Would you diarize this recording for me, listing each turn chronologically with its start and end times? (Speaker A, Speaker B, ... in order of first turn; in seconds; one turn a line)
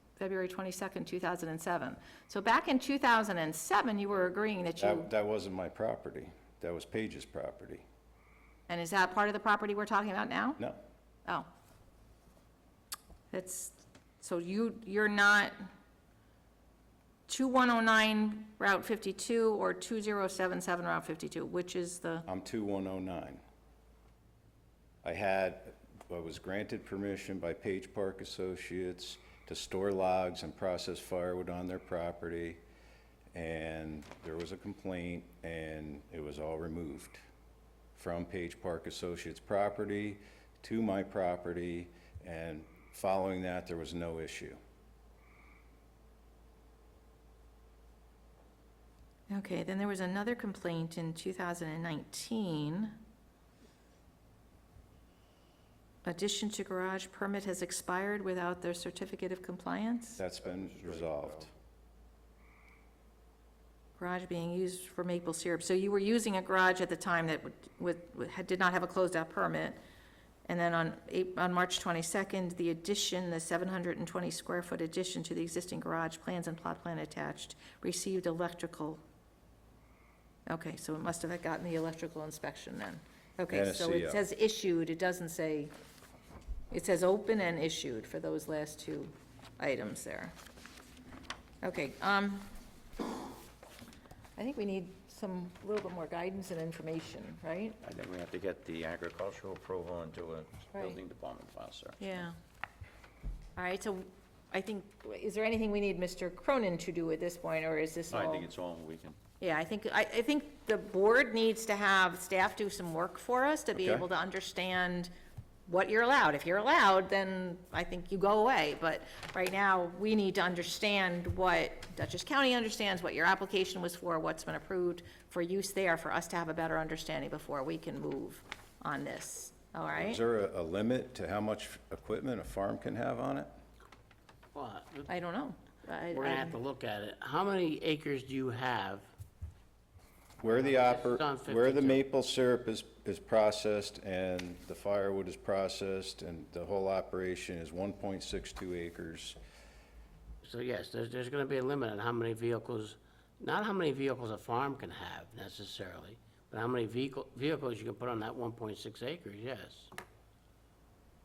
Speaker A: 0.2-5.1
Speaker B: 4.8-7.8
Speaker A: 8.7-10.6
Speaker A: 13.3-15.7
Speaker A: 17.3-22.3
Speaker B: 22.3-23.4
Speaker B: 25.0-32.6
Speaker B: 33.3-37.2
Speaker B: 38.0-44.6
Speaker A: 49.3-53.0
Speaker A: 56.0-60.2
Speaker B: 60.2-61.5
Speaker A: 64.0-69.8
Speaker A: 70.5-79.0
Speaker A: 80.5-85.7
Speaker B: 83.5-84.2
Speaker A: 86.7-90.3
Speaker A: 91.6-92.5
Speaker A: 94.4-97.8
Speaker C: 97.8-102.2
Speaker A: 102.0-102.3
Speaker A: 103.6-108.5
Speaker C: 108.1-109.2
Speaker A: 109.4-115.1
Speaker B: 113.8-114.0
Speaker A: 115.7-130.2
Speaker B: 129.9-133.5
Speaker D: 134.5-135.1
Speaker A: 135.1-136.6
Speaker D: 136.1-139.1
Speaker B: 140.4-149.4
Speaker D: 140.5-142.0
Speaker D: 150.4-159.9